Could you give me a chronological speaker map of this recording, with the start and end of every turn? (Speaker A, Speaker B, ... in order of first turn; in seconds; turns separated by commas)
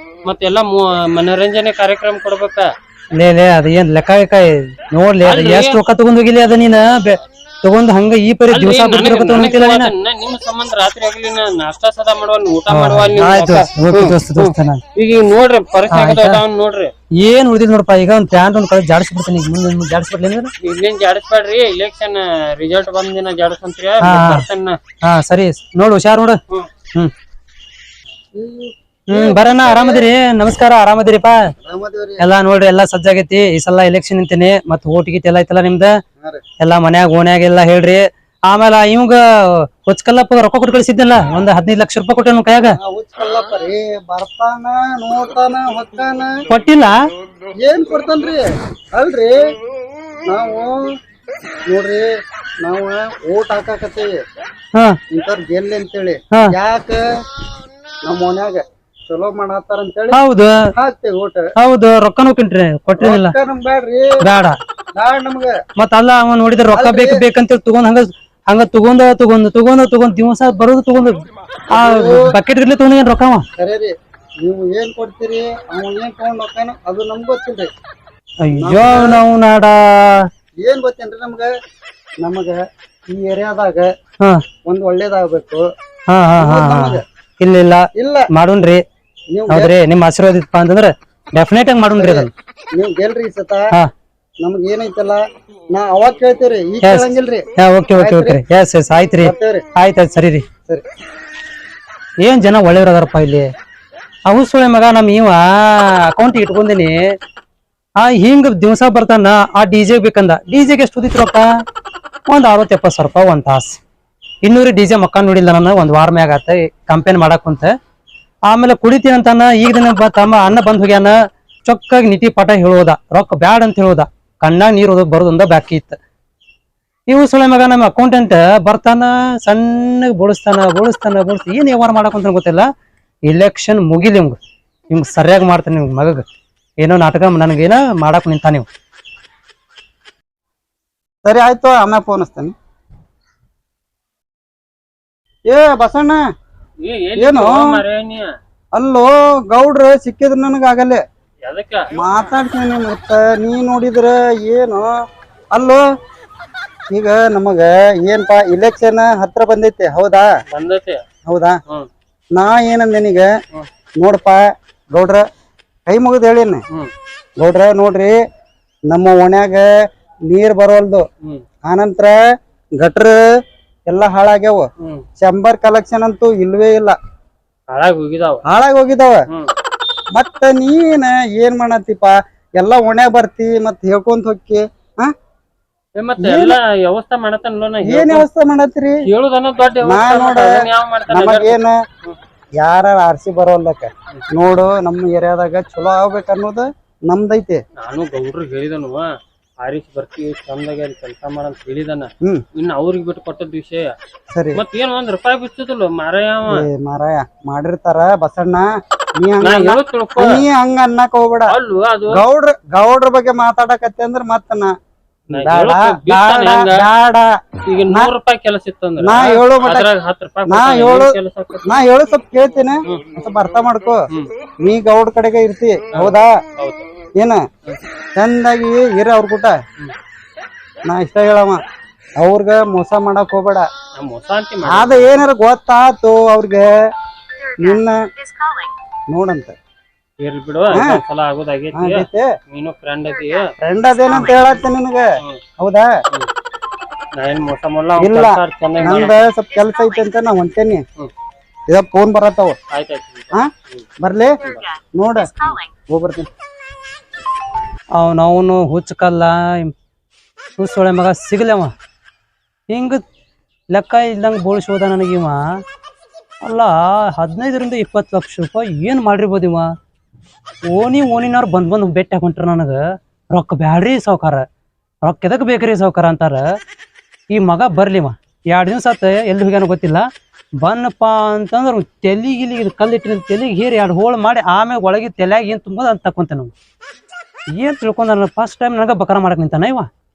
Speaker A: 0.2-2.7, Speaker B: 3.2-9.9, Speaker A: 5.2-5.8, Speaker A: 8.5-14.4, Speaker B: 12.7-14.8, Speaker A: 14.9-16.9, Speaker B: 15.9-16.4, Speaker B: 17.2-20.5, Speaker A: 20.6-24.8, Speaker B: 24.0-24.4, Speaker B: 25.0-26.4, Speaker C: 28.4-30.1, Speaker B: 29.1-31.4, Speaker C: 31.6-32.2, Speaker B: 32.2-35.9, Speaker B: 36.6-42.8, Speaker C: 42.6-46.4, Speaker B: 46.5-47.0, Speaker C: 47.6-48.4, Speaker C: 49.0-49.4, Speaker C: 50.3-50.9, Speaker C: 51.7-52.1, Speaker C: 52.6-54.2, Speaker C: 55.1-57.0, Speaker C: 58.1-60.2, Speaker B: 60.1-60.5, Speaker C: 60.8-61.5, Speaker B: 61.6-63.4, Speaker C: 63.0-64.1, Speaker B: 64.2-64.6, Speaker C: 65.0-65.6, Speaker B: 65.8-71.2, Speaker C: 66.7-67.2, Speaker C: 71.7-72.4, Speaker B: 71.7-73.4, Speaker C: 73.6-77.7, Speaker B: 78.5-80.3, Speaker C: 78.5-79.2, Speaker C: 80.6-81.5, Speaker C: 82.2-82.6, Speaker C: 83.1-83.9, Speaker C: 84.7-85.7, Speaker B: 86.1-88.8, Speaker C: 86.4-87.0, Speaker C: 88.0-88.3, Speaker C: 89.3-89.7, Speaker B: 89.5-92.3, Speaker C: 92.0-93.7, Speaker C: 94.4-97.4, Speaker B: 96.8-100.5, Speaker C: 98.0-98.4, Speaker C: 99.2-99.6, Speaker B: 102.2-103.5, Speaker B: 104.3-107.0, Speaker B: 108.0-111.5, Speaker B: 112.3-113.8, Speaker B: 114.4-117.7, Speaker B: 118.5-121.1, Speaker B: 121.7-126.0, Speaker B: 127.1-132.7, Speaker B: 133.3-134.4, Speaker B: 134.9-136.2, Speaker B: 136.8-138.7, Speaker C: 141.2-142.5, Speaker C: 145.5-146.2, Speaker A: 146.8-148.2, Speaker C: 147.2-147.8, Speaker C: 148.8-151.0, Speaker A: 151.4-151.9, Speaker C: 152.0-154.9, Speaker C: 155.5-155.8, Speaker C: 156.9-160.3, Speaker A: 160.5-161.0, Speaker C: 161.3-161.6, Speaker C: 162.3-163.3, Speaker C: 164.0-164.4, Speaker C: 164.9-165.2, Speaker C: 165.9-166.6, Speaker C: 167.4-168.2, Speaker C: 168.9-169.7, Speaker C: 170.3-171.1, Speaker C: 171.7-172.2, Speaker C: 172.8-173.2, Speaker C: 173.9-174.7, Speaker C: 175.2-177.0, Speaker A: 177.7-178.4, Speaker C: 178.5-179.2, Speaker C: 180.2-185.1, Speaker A: 186.0-188.2, Speaker C: 186.2-186.6, Speaker C: 187.8-189.0, Speaker A: 189.1-192.2, Speaker C: 189.8-190.6, Speaker C: 191.1-191.8, Speaker C: 192.6-197.6, Speaker A: 197.8-199.1, Speaker A: 199.6-203.9, Speaker C: 204.3-204.6, Speaker A: 204.5-206.7, Speaker C: 206.5-211.5, Speaker A: 209.4-210.4, Speaker A: 211.5-212.2, Speaker C: 212.1-214.7, Speaker A: 215.3-216.9, Speaker C: 215.4-217.3, Speaker A: 217.7-221.8, Speaker C: 219.0-219.9, Speaker C: 220.5-221.2, Speaker C: 221.7-224.0, Speaker C: 224.6-226.3, Speaker A: 225.9-226.9, Speaker C: 228.2-229.6, Speaker C: 230.9-231.6, Speaker C: 232.2-233.7, Speaker A: 234.0-235.2, Speaker C: 234.7-236.7, Speaker C: 237.6-237.9, Speaker C: 239.1-239.6, Speaker A: 240.2-243.5, Speaker C: 240.7-241.0, Speaker C: 241.7-242.3, Speaker C: 243.6-245.1, Speaker A: 244.1-244.3, Speaker C: 245.6-245.9, Speaker A: 247.2-249.1, Speaker C: 248.0-250.8, Speaker C: 251.7-252.6, Speaker A: 252.7-253.9, Speaker C: 254.0-255.4, Speaker C: 255.9-256.3, Speaker B: 258.0-259.7, Speaker B: 260.6-261.7, Speaker B: 262.7-263.0, Speaker B: 263.7-265.4, Speaker B: 266.4-269.7, Speaker B: 270.7-272.8, Speaker B: 273.3-274.4, Speaker B: 275.1-276.4, Speaker B: 277.3-280.1, Speaker B: 280.6-286.5, Speaker B: 287.6-289.9